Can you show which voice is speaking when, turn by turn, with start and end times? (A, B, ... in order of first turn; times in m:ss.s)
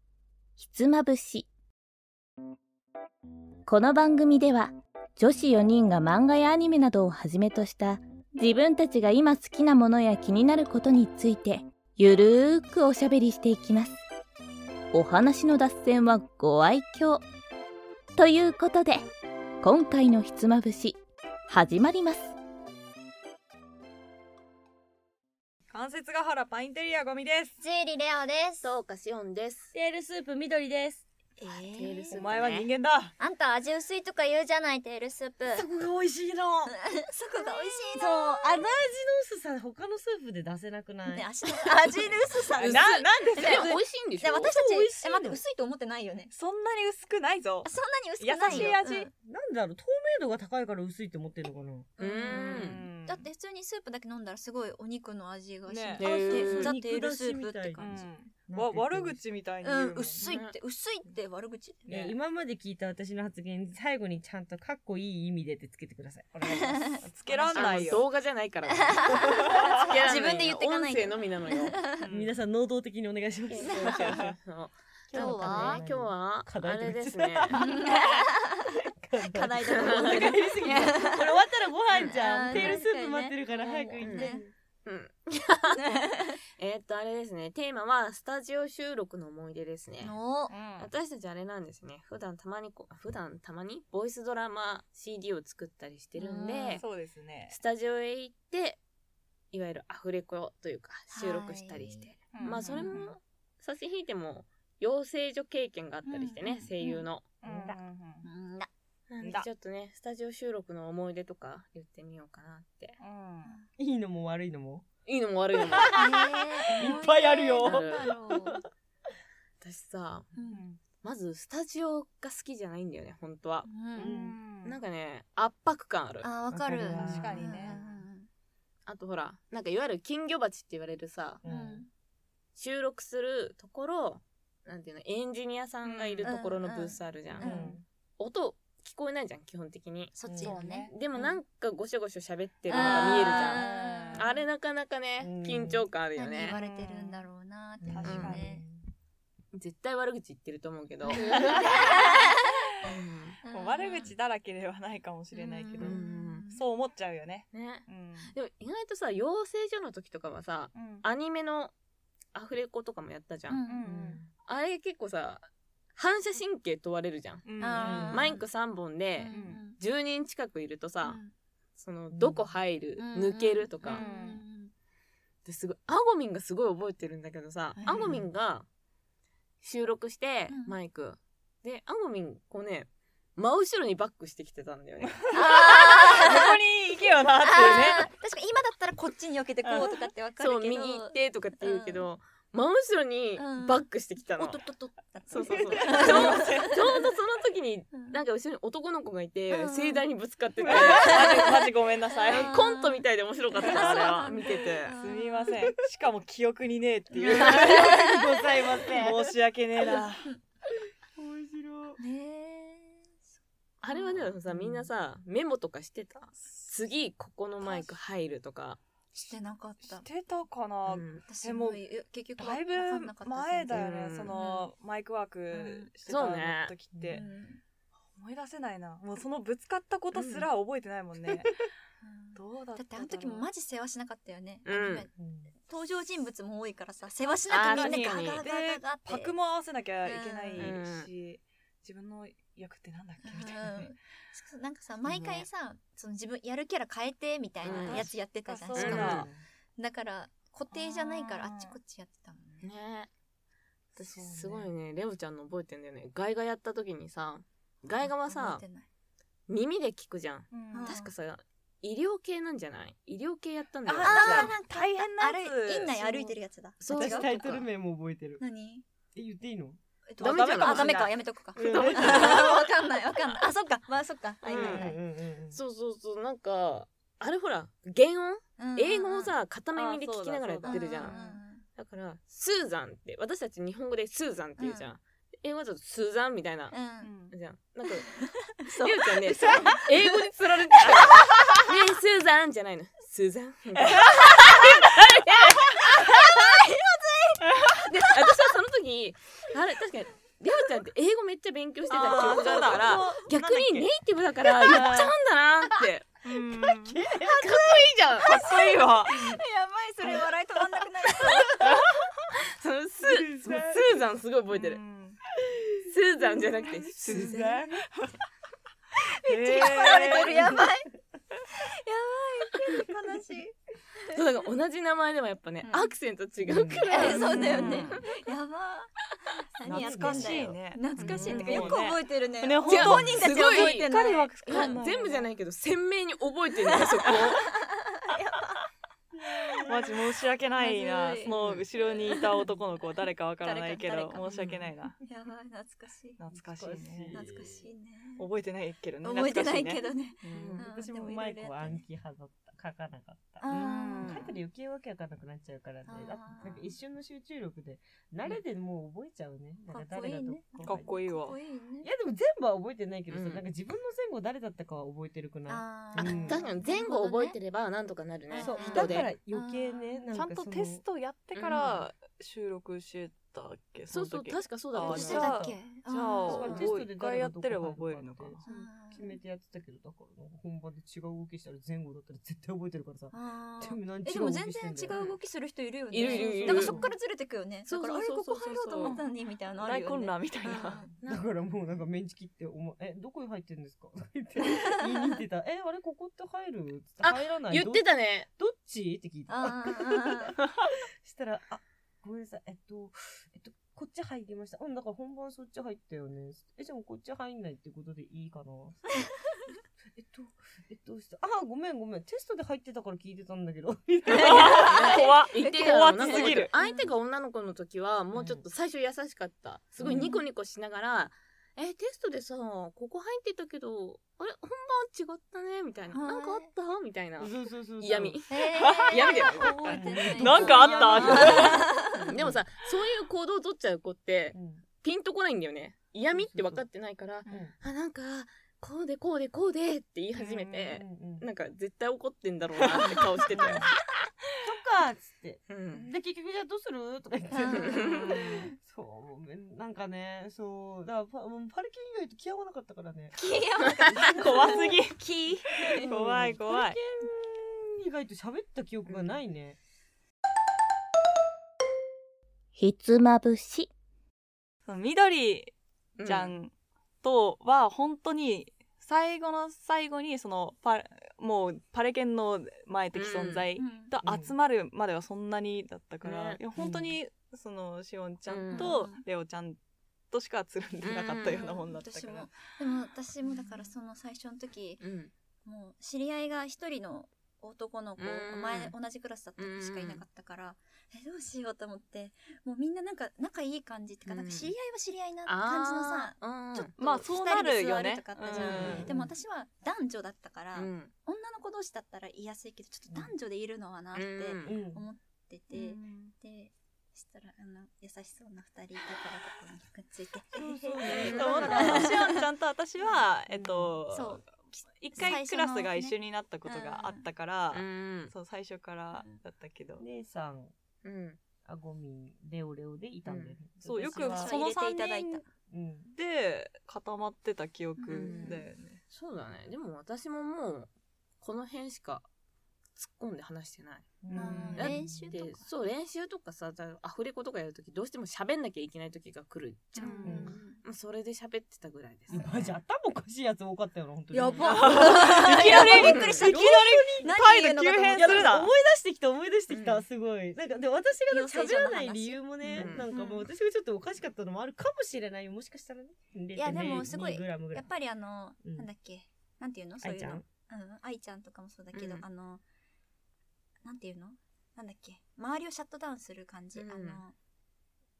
0:00.6-0:01.5 A
0:03.6-0:14.0 A
0:14.9-0:17.2 A
0:18.2-0:19.0 A
0:19.6-0:22.3 A
0:25.7-0:27.6 B
0:27.6-0:28.7 C
0:28.6-0:29.7 D
0:29.7-0:31.0 E
0:31.4-0:32.2 C
0:31.8-0:32.7 D
0:32.1-0:33.1 B
0:33.2-0:35.7 C
0:35.5-0:36.7 E
0:36.7-0:38.6 C
0:37.3-0:42.1 E
0:41.1-0:46.3 C
0:42.6-0:44.5 D
0:42.6-0:43.8 B
0:44.6-0:45.2 E
0:44.9-0:45.4 B
0:46.3-0:49.1 B
0:47.6-0:49.1 C
0:49.2-0:51.9 E
0:52.0-0:52.8 D
0:52.0-0:53.3 B
0:52.1-0:58.0 C
0:55.6-0:56.4 B
0:56.0-0:56.7 D
0:56.0-0:59.2 E
0:57.8-1:00.3 B
0:59.6-1:01.9 C
1:00.2-1:00.5 D
1:01.9-1:07.5 E
1:06.4-1:07.8 C
1:07.0-1:08.0 B
1:07.5-1:11.8 D
1:08.7-1:12.0 C
1:09.4-1:09.9 B
1:12.0-1:12.3 B
1:12.0-1:14.2 E
1:13.5-1:17.9 D
1:13.6-1:14.0 C
1:15.1-1:18.1 E
1:15.1-1:15.8 C
1:17.5-1:21.4 C
1:18.6-1:24.5 E
1:19.7-1:20.4 D
1:21.9-1:22.8 D
1:22.1-1:24.4 C
1:24.0-1:25.8 D
1:25.7-1:26.4 C
1:26.6-1:30.2 D
1:30.0-1:30.5 C
1:30.5-1:30.9 B
1:30.8-1:36.8 D
1:36.2-1:36.8 C
1:36.8-1:37.6 B
1:37.5-1:38.8 D
1:39.5-1:47.3 D
1:41.1-1:42.9 C
1:42.3-1:43.1 B
1:46.0-1:47.0 C
1:47.4-1:48.2 B
1:47.4-1:47.8 E
1:48.2-1:48.7 C
1:49.1-1:53.0 D
1:49.2-1:49.5 B
1:53.0-1:53.5 B
1:53.8-1:54.8 E
1:55.0-1:56.0 D
1:55.6-1:58.6 E
1:55.9-1:58.6 C
1:57.6-1:58.1 D
1:59.6-2:00.3 D
2:00.3-2:00.6 C
2:00.5-2:00.8 B
2:01.0-2:03.7 D
2:03.6-2:04.2 C
2:04.0-2:04.4 E
2:04.0-2:04.8 B
2:04.6-2:06.3 D
2:06.2-2:08.3 C
2:06.5-2:07.7 E
2:06.9-2:07.8 B
2:07.7-2:08.0 D
2:08.9-2:11.4 D
2:11.4-2:11.8 E
2:11.4-2:11.9 C
2:12.5-2:17.5 D
2:15.8-2:16.3 B
2:16.2-2:17.8 C
2:17.4-2:17.8 E
2:18.2-2:20.1 D
2:20.1-2:21.3 C
2:20.2-2:20.6 E
2:20.4-2:20.9 B
2:20.9-2:26.6 D
2:22.7-2:24.3 C
2:22.7-2:24.4 B
2:25.2-2:25.8 E
2:26.2-2:28.6 C
2:26.5-2:27.2 B
2:27.8-2:28.8 E
2:27.9-2:28.5 B
2:28.1-2:28.4 D
2:29.5-2:32.2 D
2:31.1-2:32.9 C
2:31.2-2:31.9 B
2:32.8-2:33.4 D
2:33.4-2:34.1 C
2:33.4-2:36.0 B
2:35.3-2:36.5 D
2:35.8-2:36.6 C
2:36.5-2:38.3 B
2:37.5-2:41.7 D
2:40.7-2:41.0 B
2:42.3-2:43.6 D
2:43.5-2:43.9 C
2:43.6-2:44.2 B
2:43.8-2:44.3 E
2:44.5-2:51.2 D
2:47.4-2:48.3 B
2:47.6-2:48.4 C
2:47.8-2:48.2 E
2:49.2-2:49.8 C
2:49.3-2:49.6 B
2:51.0-2:51.3 C
2:51.8-2:54.0 D
2:52.1-2:52.5 E
2:53.0-2:54.7 C
2:53.8-2:54.4 B
2:55.4-2:58.7 D
2:57.8-2:58.1 C
2:59.6-3:06.4 D
3:00.5-3:00.8 C
3:05.0-3:08.0 B
3:05.3-3:06.5 C
3:07.4-3:12.0 C
3:07.5-3:08.1 D
3:09.6-3:10.0 B
3:10.4-3:14.6 D
3:13.4-3:16.8 C
3:15.3-3:21.6 D
3:15.4-3:16.2 E
3:15.8-3:16.8 B
3:17.9-3:18.2 C
3:19.5-3:20.0 C
3:20.6-3:22.5 B
3:20.7-3:21.6 C
3:22.1-3:25.6 C
3:22.3-3:25.0 D
3:23.5-3:24.4 B
3:24.9-3:28.1 B
3:27.1-3:28.2 C
3:27.2-3:30.0 E
3:28.9-3:30.3 B
3:29.8-3:30.4 C
3:31.1-3:32.0 E
3:32.0-3:33.2 C
3:33.8-3:38.8 D
3:33.9-3:34.3 C
3:34.5-3:34.9 E
3:36.4-3:36.7 B
3:39.1-3:40.0 C
3:39.8-3:41.8 B
3:40.9-3:41.2 D
3:41.2-3:44.7 C
3:42.4-3:47.3 B
3:43.7-3:44.3 D
3:45.5-3:45.9 C
3:46.0-3:46.7 D
3:46.9-3:47.2 E
3:47.1-3:47.6 C
3:48.1-3:51.7 B
3:50.1-3:50.5 D
3:52.0-3:55.1 C
3:52.3-3:53.5 B
3:54.6-3:55.1 D
3:55.1-3:55.5 E
3:55.6-3:59.4 C
3:57.5-3:58.4 D
3:57.5-4:03.9 B
4:00.0-4:00.8 C
4:00.6-4:01.1 D
4:03.2-4:12.6 C
4:07.6-4:08.1 D
4:07.6-4:09.3 B
4:08.8-4:09.3 D
4:08.9-4:09.4 E
4:10.7-4:11.8 B
4:12.6-4:13.1 D
4:14.0-4:14.7 B
4:14.0-4:18.6 D
4:18.2-4:18.9 C
4:19.5-4:24.5 D
4:20.5-4:21.0 B
4:20.7-4:21.1 C
4:23.8-4:26.4 B
4:24.0-4:27.3 C
4:26.8-4:27.7 D
4:26.9-4:28.4 E
4:28.4-4:28.8 C
4:29.1-4:32.6 E
4:30.1-4:35.0 C
4:30.2-4:31.1 D
4:31.9-4:32.5 B
4:34.4-4:34.9 D
4:34.4-4:35.6 E
4:35.5-4:41.2 D
4:38.6-4:39.3 C
4:39.7-4:41.4 B
4:40.6-4:41.6 C
4:41.8-4:46.8 D
4:44.6-4:44.9 C
4:46.7-4:47.1 C
4:47.0-4:47.3 B
4:47.3-4:48.1 D
4:47.9-4:51.6 C
4:48.6-4:56.3 D
4:53.9-4:54.7 B
4:55.8-4:57.5 C
4:57.8-5:06.2 D
5:01.9-5:03.9 B
5:02.2-5:02.7 C
5:04.4-5:05.1 B
5:06.2-5:07.0 B
5:06.8-5:07.5 E
5:07.1-5:11.8 C
5:07.4-5:08.5 D
5:08.2-5:09.3 B
5:12.5-5:14.8 D
5:13.0-5:14.0 E
5:14.5-5:15.2 B
5:15.4-5:15.9 E
5:15.8-5:17.6 D
5:17.0-5:18.0 B
5:17.0-5:17.8 E
5:19.2-5:20.9 C
5:19.2-5:20.6 B
5:21.5-5:24.2 C
5:24.1-5:28.1 D
5:25.6-5:25.9 C
5:26.4-5:27.4 E
5:26.9-5:28.9 C
5:27.0-5:28.0 B
5:29.5-5:34.8 C
5:29.6-5:35.3 B
5:29.7-5:31.7 E
5:31.3-5:31.7 D
5:32.6-5:37.5 D
5:36.7-5:38.6 C
5:39.1-5:40.1 E
5:39.4-5:40.0 C
5:39.6-5:45.0 B
5:40.5-5:42.5 C
5:41.2-5:41.6 D
5:43.4-5:46.2 C
5:46.2-5:47.2 B
5:46.3-5:47.7 E
5:47.1-5:48.3 C
5:48.2-5:50.6 B
5:49.0-5:51.8 C
5:50.3-6:00.9 E
5:53.4-5:54.3 C
5:53.5-5:54.3 B
5:55.8-5:56.7 C
5:59.7-6:01.9 C
6:00.6-6:01.4 B
6:01.8-6:06.5 E
6:03.1-6:03.5 D
6:05.5-6:07.4 C
6:06.0-6:09.1 D
6:08.3-6:10.1 C
6:08.4-6:10.8 E
6:08.7-6:09.1 B
6:10.1-6:18.5 B
6:11.3-6:11.9 D
6:13.9-6:15.4 D
6:14.8-6:15.6 E
6:14.9-6:16.6 C
6:16.2-6:24.9 E
6:16.3-6:16.7 D
6:18.4-6:19.2 C
6:23.1-6:30.9 C
6:25.9-6:26.8 D
6:26.0-6:26.9 E
6:27.6-6:29.0 D
6:28.8-6:29.1 B
6:29.6-6:30.8 B
6:30.5-6:48.8 E
6:31.0-6:31.3 D
6:34.4-6:35.1 C
6:37.0-6:38.3 D
6:39.3-6:40.4 C
6:49.9-6:54.9 E
6:54.1-6:56.5 B
6:54.1-6:56.9 C
6:54.2-7:23.7 D
6:58.1-6:58.4 E
6:59.8-7:00.1 E
6:59.9-7:00.2 C
7:05.9-7:06.5 C
7:07.2-7:08.2 E
7:08.3-7:12.1 C
7:08.6-7:09.4 B
7:09.6-7:12.4 E
7:10.1-7:11.7 B
7:14.3-7:14.6 E
7:16.1-7:16.6 E
7:17.2-7:17.5 E
7:20.2-7:20.7 B
7:20.6-7:21.2 E
7:22.7-7:23.5 B
7:23.3-7:23.7 E
7:24.4-7:33.2 E
7:25.5-7:25.9 D
7:27.3-7:28.4 C
7:27.5-7:28.2 D
7:33.2-7:35.8 C
7:33.8-7:34.9 E
7:33.9-7:36.8 B
7:35.8-7:39.6 E
7:38.9-7:39.2 D
7:42.5-7:43.7 A
7:44.6-7:45.5 B
7:46.0-7:46.3 D
7:46.0-7:46.5 B
7:47.0-7:59.6 B
7:52.9-7:53.5 D
7:53.6-7:53.9 C
7:54.0-7:54.3 E
7:56.0-7:56.4 D
7:56.6-7:56.9 E
7:58.3-7:58.7 D
7:58.5-7:59.0 C
8:00.1-8:02.3 B
8:00.8-8:01.4 D
8:01.2-8:04.8 C
8:04.8-8:05.1 D
8:05.4-8:32.3 C
8:08.0-8:08.7 D
8:09.4-8:10.0 D
8:14.1-8:14.5 D
8:15.2-8:16.7 D
8:16.8-8:18.9 B
8:18.4-8:19.1 E
8:18.4-8:18.9 D
8:20.5-8:20.9 D
8:23.9-8:24.5 D
8:24.4-8:24.8 E
8:25.5-8:26.1 B
8:30.3-8:31.9 E
8:30.8-8:31.9 D
8:30.9-8:39.8 B
8:33.3-8:33.8 E
8:33.9-8:37.0 C
8:37.5-8:38.1 D
8:39.8-8:40.5 E
8:40.8-8:41.2 D
8:41.4-8:44.4 E
8:43.0-8:43.4 D
8:43.6-8:45.2 B
8:43.9-8:45.2 C
8:45.5-8:45.9 E
8:45.9-8:48.8 B
8:47.8-8:48.4 C
8:47.9-8:50.7 D
8:51.2-8:52.0 D
8:52.8-9:02.6 D
8:54.0-8:55.1 E
8:54.1-8:55.5 C
8:59.8-9:00.6 C
8:59.8-9:00.3 B
9:00.0-9:00.4 E
9:02.1-9:07.1 E
9:04.1-9:08.4 C
9:04.4-9:08.5 B
9:07.9-9:17.7 E
9:09.5-9:09.8 D
9:11.1-9:13.3 C
9:12.5-9:12.8 D
9:16.3-9:22.4 C
9:18.4-9:18.7 E
9:19.8-9:20.2 E
9:21.7-9:22.0 D
9:23.6-9:27.1 C
9:26.5-9:27.0 D